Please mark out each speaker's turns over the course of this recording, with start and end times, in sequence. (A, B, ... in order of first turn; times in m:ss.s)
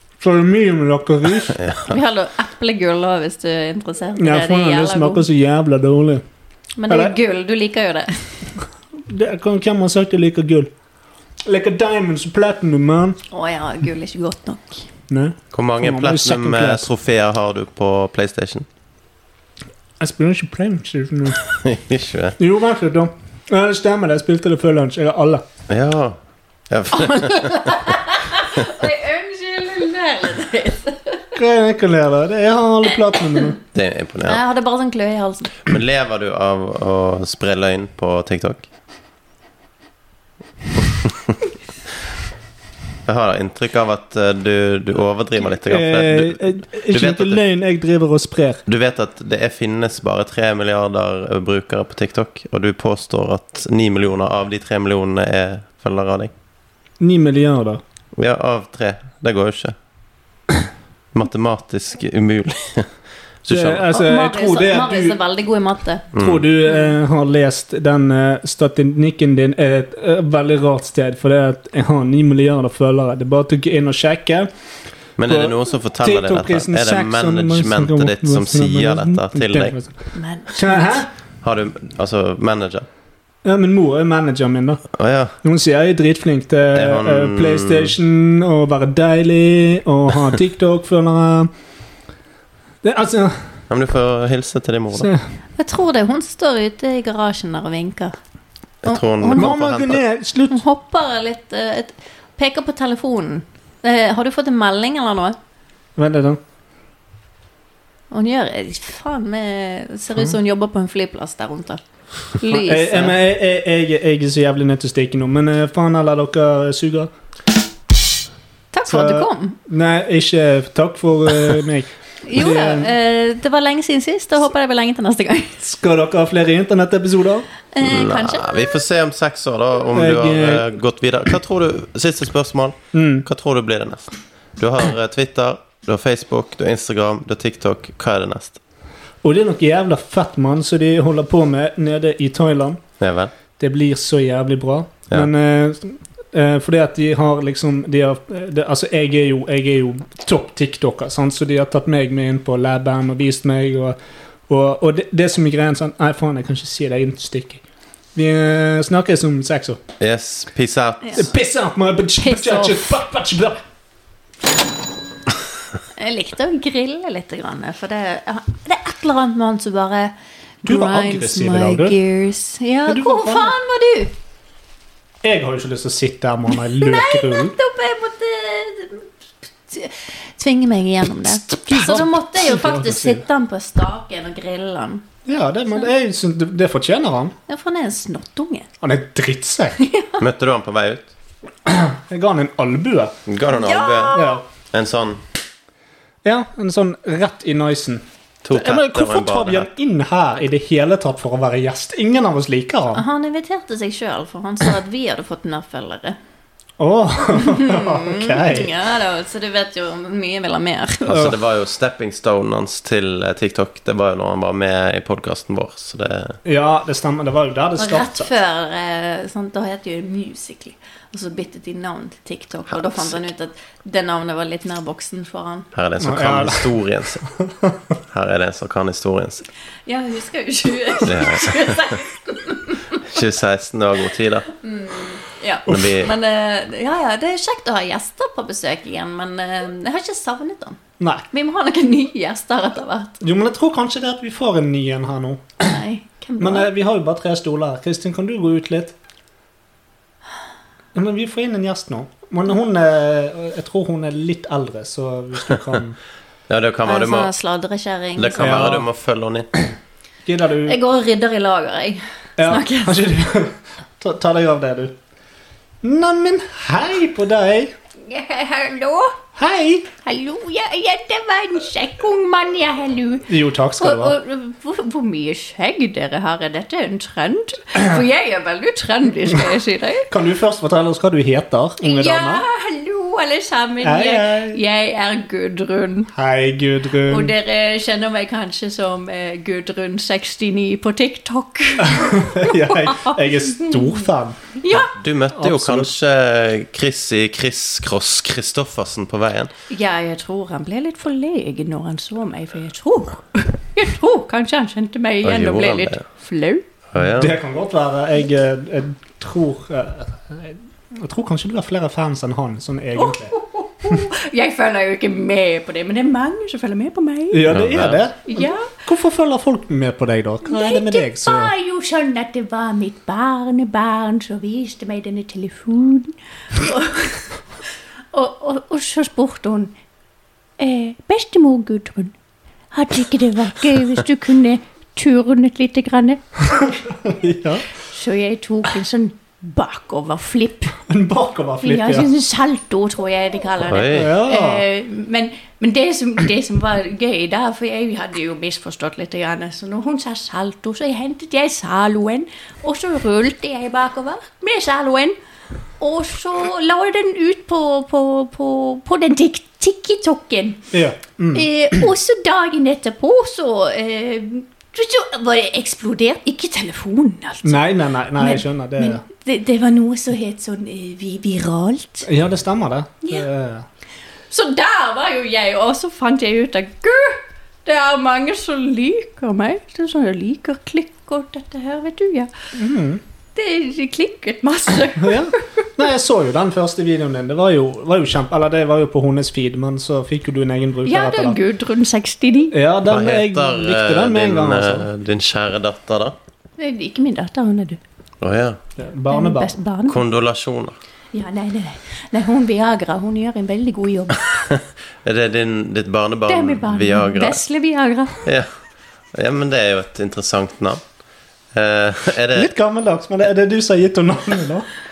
0:00.2-0:01.6 A
0:01.5-0:02.0 B
0:01.8-0:05.2 C
0:04.2-0:06.2 A
0:06.8-0:08.4 C
0:06.9-0:07.2 A
0:09.0-0:10.7 A
0:11.4-0:13.2 A
0:13.3-0:14.9 C
0:15.1-0:16.9 A
0:15.5-0:18.7 B
0:20.0-0:21.5 A
0:21.5-0:22.4 B
0:22.4-0:25.4 A
0:25.7-0:26.2 B
0:26.7-0:27.7 B
0:27.0-0:31.4 C
0:31.4-0:33.6 A
0:33.7-0:34.4 B
0:34.2-0:35.6 C
0:35.6-0:38.6 B
0:41.0-0:41.3 B
0:43.0-0:47.4 B
0:45.6-0:48.6 A
0:48.6-0:56.3 B
0:57.0-0:57.8 A
0:58.1-0:59.7 B
1:01.1-1:02.9 B
1:03.4-1:03.9 B
1:03.5-1:05.2 A
1:03.9-1:06.1 C
1:06.1-1:06.4 B
1:06.1-1:14.5 A
1:06.6-1:06.9 C
1:15.2-1:19.8 B
1:15.3-1:19.9 A
1:20.1-1:21.0 C
1:20.5-1:21.1 A
1:21.4-1:22.8 B
1:23.4-1:24.8 A
1:24.9-1:25.3 B
1:25.4-1:31.5 A
1:26.7-1:27.9 B
1:32.8-1:33.4 A
1:33.7-1:35.1 B
1:35.6-1:38.2 C
1:38.8-1:40.0 B
1:38.8-1:39.5 C
1:39.3-1:40.6 A
1:40.5-1:45.4 C
1:46.0-1:46.4 A
1:48.1-1:51.8 C
1:52.3-1:53.2 C
1:52.5-1:57.1 A
1:58.7-1:59.6 C
1:58.9-2:02.9 A
2:02.2-2:05.7 C
2:05.6-2:07.5 A
2:07.7-2:08.8 C
2:07.8-2:18.6 B
2:09.9-2:10.7 A
2:12.9-2:13.2 A
2:19.2-2:22.8 A
2:23.0-2:23.3 B
2:23.6-2:34.0 A
2:34.5-2:37.6 A
2:38.1-2:39.8 A
2:40.0-2:41.3 B
2:41.2-2:43.6 A
2:42.2-2:42.9 C
2:46.0-2:54.1 C
2:50.6-2:51.9 A
2:52.8-2:53.5 A
2:55.2-2:57.5 A
2:56.6-2:59.1 C
2:59.6-3:05.0 C
3:01.5-3:03.2 A
3:05.2-3:07.3 A
3:07.5-3:08.7 C
3:08.8-3:09.8 A
3:09.8-3:10.2 C
3:10.2-3:11.1 B
3:11.6-3:13.1 A
3:13.3-3:15.2 B
3:13.5-3:14.4 C
3:14.1-3:14.4 A
3:16.2-3:23.0 A
3:18.4-3:19.7 B
3:22.9-3:26.2 C
3:26.8-3:28.7 A
3:27.4-3:31.2 C
3:31.0-3:36.4 B
3:31.1-3:31.3 A
3:36.4-3:38.3 A
3:37.8-3:45.7 C
3:45.7-3:47.2 B
3:46.0-3:46.7 A
3:48.1-3:49.4 B
3:49.8-3:53.0 C
3:51.0-3:52.0 B
3:53.0-3:54.5 B
3:54.6-4:00.8 C
3:55.7-3:56.1 B
4:01.0-4:01.2 A
4:01.3-4:03.2 C
4:03.2-4:05.8 A
4:05.6-4:06.7 C
4:06.4-4:08.9 A
4:10.9-4:16.0 A
4:16.5-4:17.3 B
4:16.8-4:18.6 C
4:18.2-4:19.5 B
4:18.4-4:18.8 A
4:20.2-4:20.8 A
4:20.6-4:23.0 C
4:22.4-4:24.9 A
4:25.8-4:27.7 A
4:28.0-4:29.2 C
4:29.4-4:29.9 A
4:30.0-4:40.1 C
4:33.3-4:34.2 A
4:40.1-4:42.4 A
4:41.8-4:46.1 C
4:43.8-4:44.6 A
4:46.1-4:47.3 A
4:47.0-4:55.0 C
4:51.8-4:54.4 A
4:54.9-4:59.5 B
4:55.3-4:55.9 A
4:59.7-5:06.6 C
5:05.2-5:06.0 B
5:06.9-5:07.3 B
5:07.0-5:13.3 A
5:13.0-5:17.6 C
5:17.3-5:21.5 A
5:17.5-5:18.1 B
5:18.3-5:18.7 C
5:20.4-5:27.2 C
5:28.1-5:29.7 C
5:30.6-5:32.1 C
5:32.7-5:36.2 C
5:36.5-5:37.6 A
5:37.8-5:40.8 C
5:40.9-5:42.1 A
5:41.6-5:55.2 C
5:43.6-5:44.1 B
5:43.9-5:44.6 A
5:55.8-6:00.7 C
6:00.7-6:01.9 A
6:01.3-6:12.1 C
6:07.4-6:09.0 A
6:12.0-6:13.6 A
6:14.3-6:22.3 C
6:22.6-6:23.0 A
6:23.3-6:25.6 C
6:25.0-6:31.4 A
6:30.8-6:32.6 C
6:32.5-6:34.9 A
6:32.8-6:36.2 B
6:36.6-6:37.8 C
6:38.2-6:38.6 B
6:38.8-6:39.5 A
6:39.1-6:40.0 C
6:39.9-6:40.8 B
6:41.1-6:44.4 C
6:45.0-6:47.4 B
6:46.3-6:48.3 C
6:48.2-6:48.5 B
6:49.1-6:50.8 B
6:51.5-6:52.5 B
6:52.3-6:54.7 A